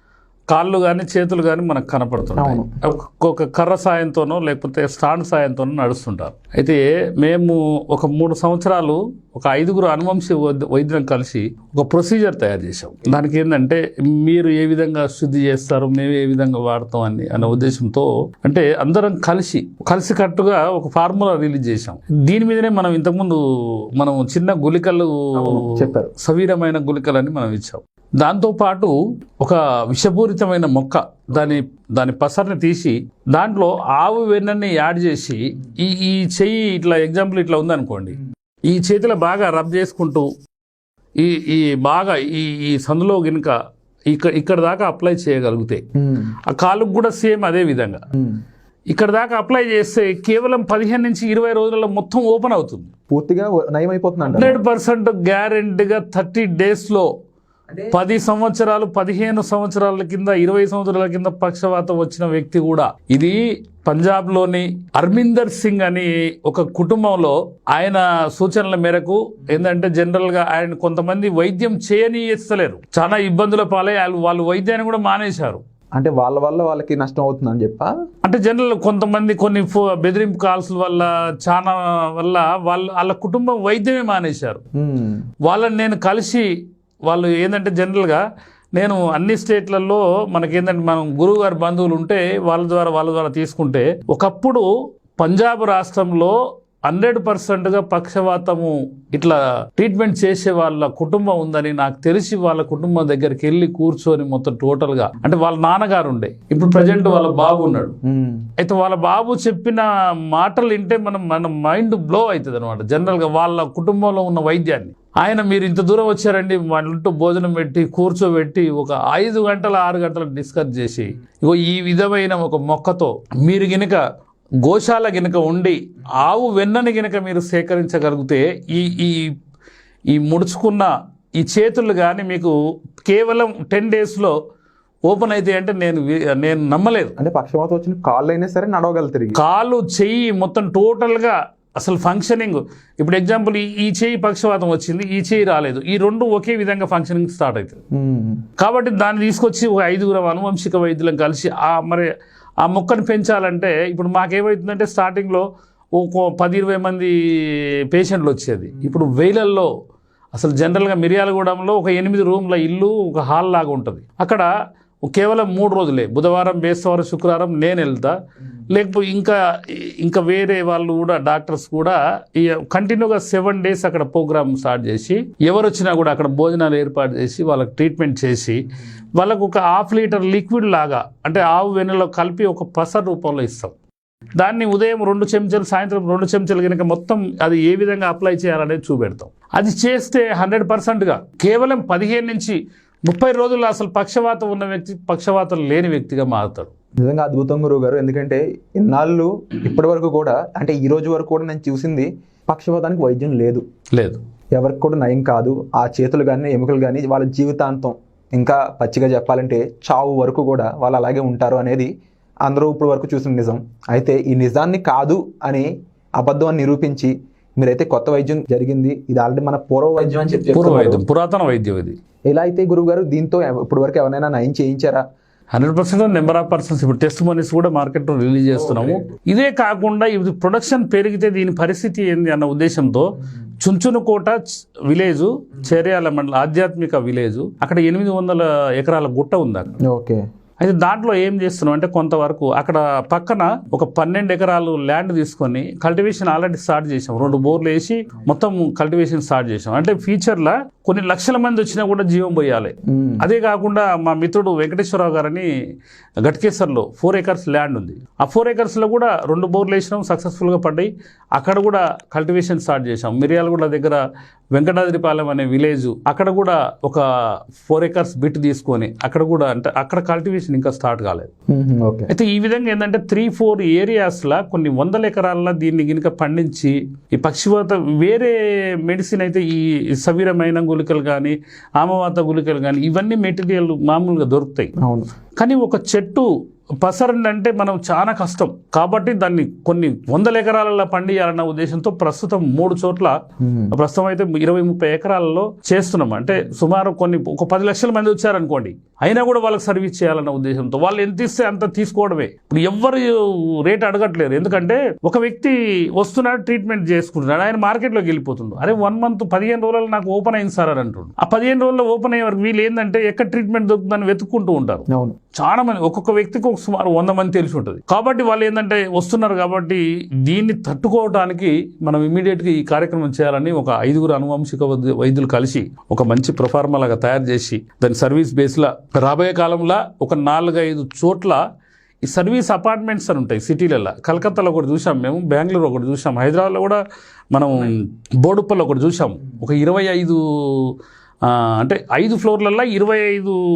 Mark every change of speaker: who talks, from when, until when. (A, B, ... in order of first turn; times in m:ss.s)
0:00.5-0:23.4 A
0:02.4-0:02.7 B
0:24.0-0:40.3 A
0:25.4-0:26.1 B
0:41.2-0:43.6 A
0:44.1-0:45.8 A
0:46.0-0:46.4 B
0:46.5-0:48.1 A
0:48.1-0:48.4 B
0:48.9-0:52.9 A
0:53.1-0:54.6 B
0:54.3-0:57.1 A
0:57.7-0:58.0 B
0:57.9-1:15.6 A
1:16.0-1:17.9 B
1:18.2-1:24.6 A
1:24.8-1:25.2 B
1:25.5-1:26.5 A
1:27.1-1:28.2 A
1:28.8-1:34.7 A
1:35.2-1:36.4 A
1:36.9-1:48.0 A
1:48.0-1:48.5 B
1:48.6-2:04.0 A
2:04.6-2:09.3 A
2:10.1-2:14.3 A
2:15.1-2:17.1 A
2:17.2-2:19.4 B
2:19.4-2:27.8 A
2:27.9-2:28.4 B
2:28.6-2:32.1 A
2:32.6-2:35.4 A
2:36.0-2:39.7 A
2:40.4-2:44.5 A
2:45.0-2:48.2 A
2:48.7-3:03.8 A
3:04.4-3:16.7 A
3:17.0-3:23.6 B
3:23.9-3:24.2 A
3:24.6-3:31.9 B
3:32.4-3:41.0 B
3:40.5-3:42.0 A
3:42.3-3:45.0 B
3:45.6-3:59.8 A
3:48.7-3:49.0 B
3:59.9-4:00.2 B
4:00.6-4:15.5 A
4:12.9-4:13.3 B
4:16.2-4:24.0 A
4:24.5-4:27.0 A
4:27.6-4:31.3 A
4:31.5-4:32.1 B
4:32.1-4:44.7 A
4:44.8-4:45.1 B
4:45.4-4:46.3 A
4:46.8-4:53.1 A
4:53.4-4:53.8 B
4:53.7-5:31.4 A
5:14.9-5:15.2 B
5:32.0-5:36.8 A
5:37.3-5:43.4 A